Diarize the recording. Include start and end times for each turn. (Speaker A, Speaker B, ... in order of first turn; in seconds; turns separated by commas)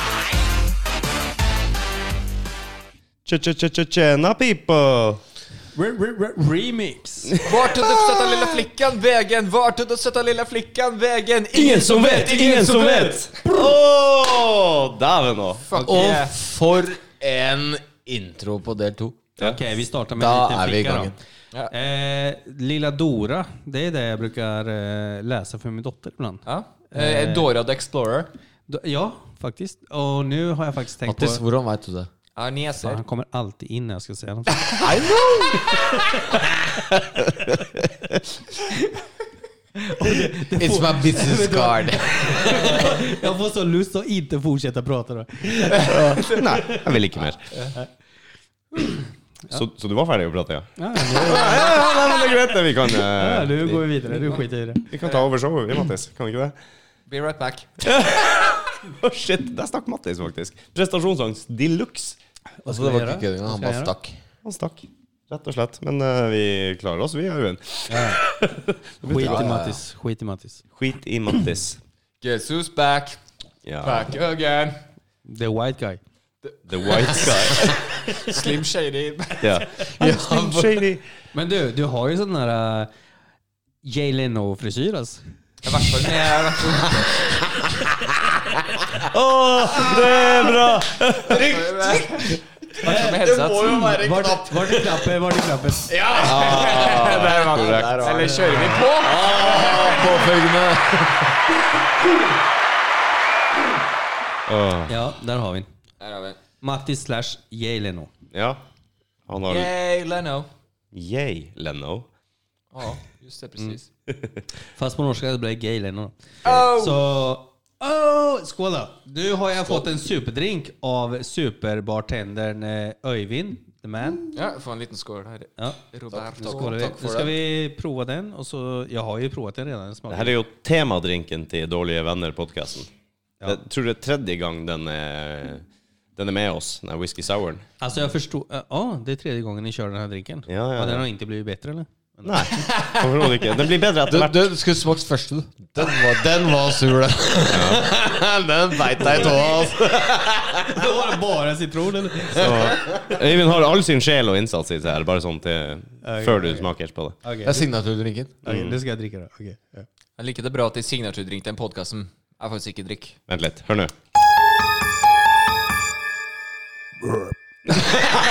Speaker A: 3.2-5.2, Speaker B: 5.7-7.4, Speaker A: 7.4-8.3, Speaker C: 7.4-13.4, Speaker A: 11.5-15.7, Speaker C: 15.7-16.3, Speaker B: 15.7-16.1, Speaker D: 15.8-19.2, Speaker B: 19.4-21.1, Speaker D: 20.1-21.1, Speaker B: 21.7-27.5, Speaker C: 26.4-28.3, Speaker B: 28.7-31.4, Speaker D: 31.0-32.1, Speaker C: 32.4-33.0, Speaker B: 32.8-34.8, Speaker D: 34.8-35.8, Speaker B: 35.7-37.7, Speaker B: 39.8-46.9, Speaker D: 40.5-43.0, Speaker D: 45.8-46.3, Speaker A: 46.0-47.5, Speaker A: 49.5-53.9, Speaker B: 50.8-52.3, Speaker B: 53.1-54.8, Speaker A: 54.9-56.5, Speaker C: 57.1-57.9, Speaker A: 57.8-62.2, Speaker B: 62.6-63.9, Speaker D: 62.7-64.1, Speaker A: 64.4-69.5, Speaker B: 67.9-68.2, Speaker B: 69.0-70.6, Speaker D: 69.1-69.8, Speaker A: 70.8-71.8, Speaker C: 72.2-73.2, Speaker A: 73.6-74.1, Speaker C: 73.8-74.8, Speaker B: 75.2-76.0, Speaker C: 76.5-79.6, Speaker A: 76.7-77.7, Speaker A: 79.4-81.0, Speaker D: 80.0-80.9, Speaker B: 81.3-82.9, Speaker B: 83.8-85.2, Speaker C: 85.6-87.1, Speaker D: 86.5-88.4, Speaker A: 89.0-91.5, Speaker D: 89.8-90.6, Speaker D: 91.3-95.0, Speaker C: 91.5-94.0, Speaker B: 92.8-95.9, Speaker D: 95.9-101.3, Speaker C: 96.1-100.0, Speaker A: 97.0-98.1, Speaker B: 98.3-98.9, Speaker A: 104.5-104.9, Speaker B: 104.9-105.7, Speaker C: 106.0-106.4, Speaker B: 106.6-108.1, Speaker A: 108.3-108.6, Speaker A: 109.3-109.7, Speaker C: 109.5-110.5, Speaker A: 110.9-112.1, Speaker C: 112.7-113.9, Speaker B: 114.8-124.3, Speaker C: 116.4-117.0, Speaker C: 124.3-126.8, Speaker D: 126.1-127.3, Speaker B: 126.3-130.3, Speaker A: 130.1-132.9, Speaker A: 133.4-135.6, Speaker A: 136.2-137.6, Speaker B: 137.8-142.7, Speaker A: 140.5-141.1, Speaker A: 142.2-144.5, Speaker C: 142.7-143.0, Speaker D: 144.1-150.8, Speaker A: 147.5-147.8, Speaker B: 150.7-153.1, Speaker A: 152.3-157.2, Speaker D: 152.4-152.7, Speaker B: 156.0-156.7, Speaker B: 157.2-157.6, Speaker D: 157.4-158.4, Speaker B: 158.4-159.9, Speaker A: 158.4-158.8, Speaker C: 160.2-163.2, Speaker A: 163.3-163.9, Speaker B: 167.0-167.8